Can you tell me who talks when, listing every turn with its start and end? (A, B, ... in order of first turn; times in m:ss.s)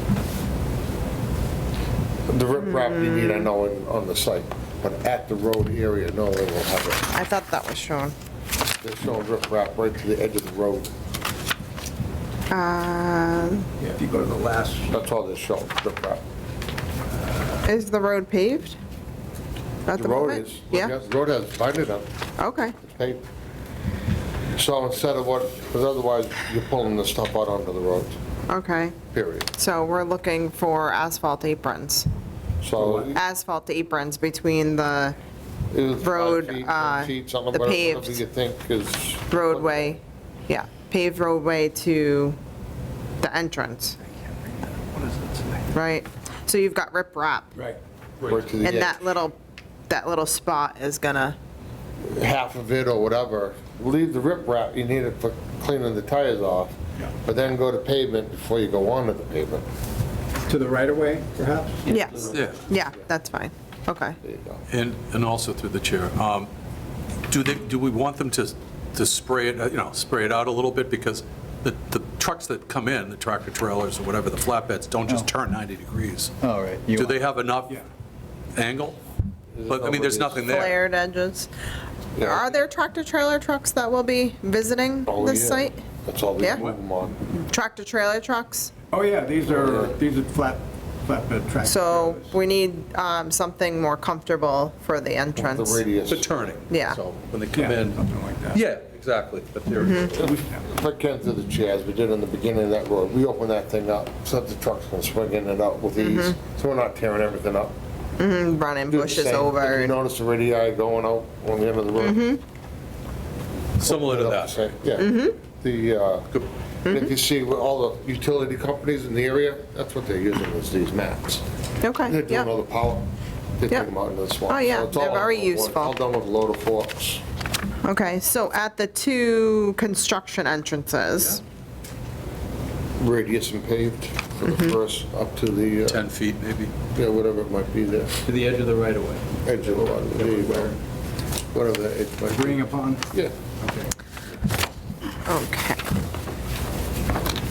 0:02.3-0:07.1 A
0:02.7-0:03.4 B
0:07.1-0:08.2 B
0:08.8-0:10.9 A
0:12.5-0:13.7 B
0:13.8-0:14.9 C
0:14.9-0:16.2 A
0:17.6-0:18.8 B
0:19.9-0:20.9 B
0:20.0-0:22.1 A
0:22.4-0:22.8 B
0:22.8-0:23.2 A
0:24.6-0:28.2 A
0:28.5-0:32.1 B
0:29.0-0:29.5 A
0:32.6-0:33.2 A
0:32.9-0:35.2 B
0:35.7-0:39.9 A
0:36.0-0:38.2 B
0:39.3-0:42.4 B
0:43.2-0:44.0 B
0:44.2-0:45.6 C
0:45.7-0:47.5 B
0:47.6-0:48.3 C
0:48.3-0:49.0 A
0:48.6-0:49.4 B
0:49.9-0:51.4 B
0:52.0-0:59.6 A
1:00.5-1:02.4 C
1:01.9-1:04.2 B
1:02.3-1:02.6 D
1:04.2-1:04.6 A
1:04.7-1:06.5 D
1:07.3-1:16.4 D
1:16.4-1:17.1 C
1:16.9-1:17.8 D
1:18.6-1:19.0 D
1:19.5-1:20.6 A
1:19.7-1:20.8 D
1:20.4-1:21.5 B
1:22.2-1:22.5 A
1:22.2-1:25.8 B
1:25.1-1:27.3 A
1:27.3-1:28.7 B
1:28.9-1:32.4 C
1:29.5-1:29.9 A
1:31.6-1:35.8 B
1:35.4-1:36.5 A
1:36.1-1:38.0 D
1:36.7-1:37.0 B
1:37.5-1:38.6 C
1:38.5-1:40.5 D
1:39.8-1:40.1 B
1:40.1-1:47.8 A
1:46.0-1:46.4 B
1:48.2-1:50.0 B
1:48.9-1:52.3 A
1:52.0-1:52.4 B
1:53.8-1:54.7 D
1:53.8-2:01.4 A
1:55.0-1:55.4 B
2:01.8-2:02.5 B
2:02.1-2:03.1 A
2:03.6-2:07.2 A
2:04.5-2:06.0 B
2:07.8-2:11.4 B
2:13.0-2:16.0 A
2:15.9-2:16.7 D
2:16.9-2:18.2 A
2:18.3-2:20.7 C
2:19.4-2:20.8 A
2:21.5-2:23.3 A
2:22.3-2:23.1 C
2:23.6-2:23.9 C
2:25.2-2:25.8 B